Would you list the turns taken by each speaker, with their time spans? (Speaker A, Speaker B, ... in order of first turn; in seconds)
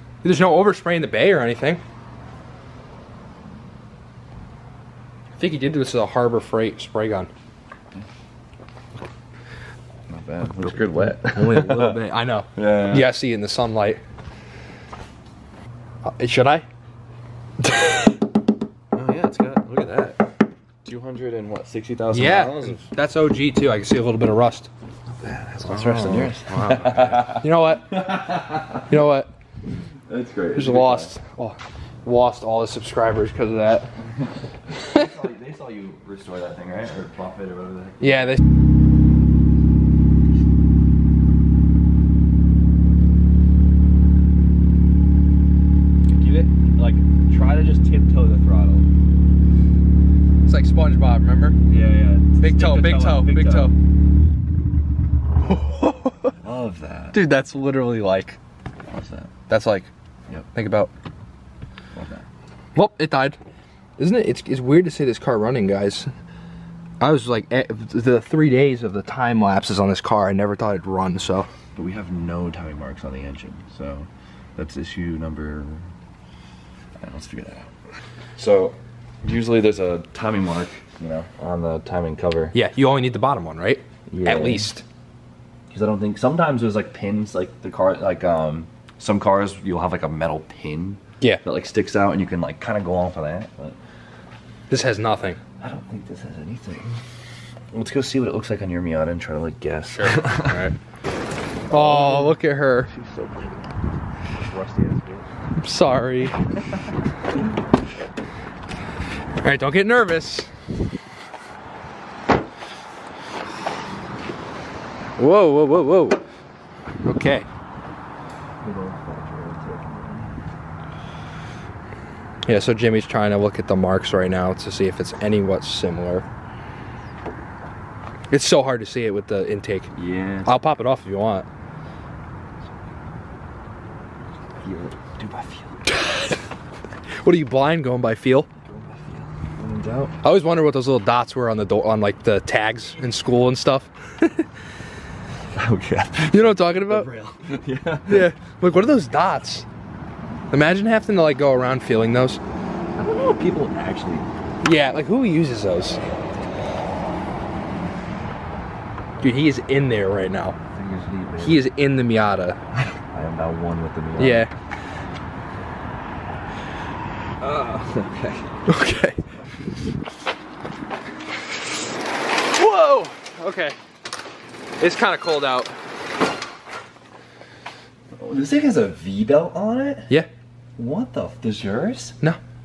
Speaker A: 0.2-1.8, 5.4-7.3, 11.3-14.0, 16.1-16.6, 17.6-18.2, 22.1-24.7, 25.6-27.9, 28.9-29.3, 30.6-33.9, 38.0-38.4, 50.5-51.6, 52.4-53.7, 55.4-56.3, 57.1-58.4, 59.5-59.9, 60.5-60.9, 62.7-63.4, 64.0-66.1, 67.0-71.5, 82.5-84.8, 94.7-95.4, 99.9-100.7, 101.7-102.9, 105.6-106.4, 109.4-110.5, 115.2-116.2, 117.0-117.5, 122.5-126.2, 128.3-129.9, 130.4-131.5, 135.9-136.3, 137.2-138.5, 140.2-144.5, 146.3-147.1, 148.1-149.7, 150.5-152.4, 154.6-156.0, 159.2-160.6, 161.4-162.6, 164.2-164.5, 168.7-169.2, 172.5-173.8, 174.8-175.8
Speaker B: 10.1-12.0, 12.6-13.1, 18.9-20.3, 20.9-22.9, 25.2-29.0, 30.1-31.1, 34.8-38.3, 46.1-48.9, 51.7-53.7, 56.4-57.2, 58.9-59.3, 61.9-62.3, 71.8-75.9, 77.0-77.7, 78.4-82.5, 84.1-84.7, 85.7-93.8, 95.6-97.0, 97.7-100.6, 101.7-103.8, 104.4-105.3, 118.6-120.4, 129.9-130.6, 134.6-135.8, 138.6-140.1, 145.5-148.3, 153.0-154.3, 160.7-161.7, 163.1-164.5, 167.4-168.5, 178.2-180.1, 180.8-182.2